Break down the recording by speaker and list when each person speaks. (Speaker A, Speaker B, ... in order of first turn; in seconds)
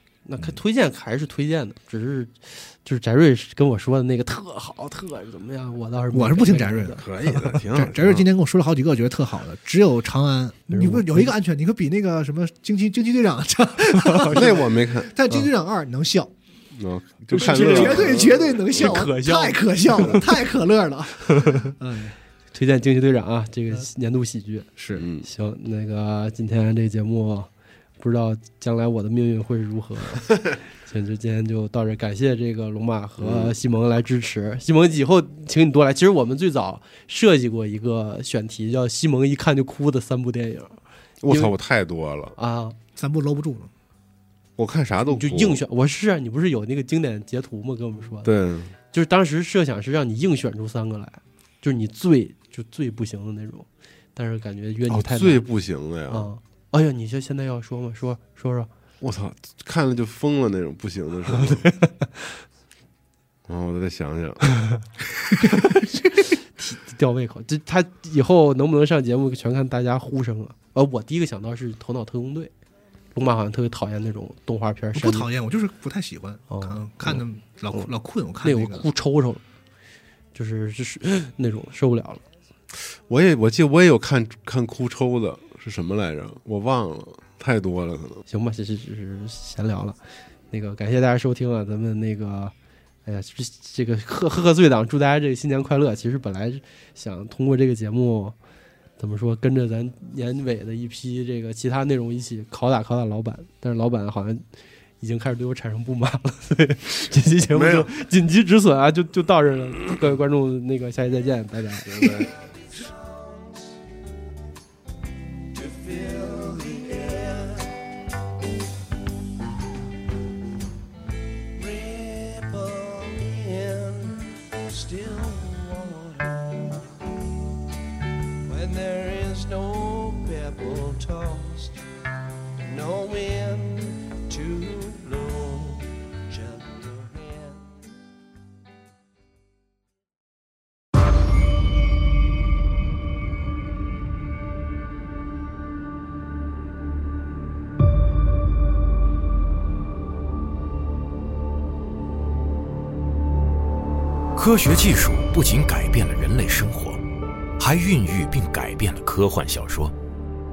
Speaker A: 0.2-7.0, 10.7-11.3, 14.0-14.7, 17.3-20.3, 21.2-21.7, 22.5-27.5, 28.0-41.5, 42.4-42.8, 45.1-48.3, 48.9-55.5, 56.1-58.7, 61.4-62.4, 66.6-72.5, 73.1-75.3, 76.5-77.2, 78.4-79.4, 80.3-82.2, 88.3-90.0, 90.5-92.5, 93.0-98.3, 99.0-104.4, 105.0-112.2, 115.7-117.2, 122.3-123.9, 125.3-126.0, 128.6-131.5, 132.9-133.7, 134.5-135.6
Speaker B: 6.1-7.1, 7.6-16.3, 17.3-22.1, 24.8-25.1, 43.0-43.7, 74.9-78.8
Speaker C: 7.0-8.3, 14.3-15.1, 16.7-19.0, 24.9-25.2, 33.2-33.5, 41.2-42.3, 44.6-45.6, 48.2-48.7, 54.9-56.3, 59.0-61.7, 63.5-64.4, 82.7-88.2, 107.5-107.9, 111.8-112.3
Speaker D: 115.7-117.6, 121.6-126.7, 128.5-131.8, 132.6-135.8, 136.3-137.4
Speaker E: 154.3-157.0, 157.6-159.9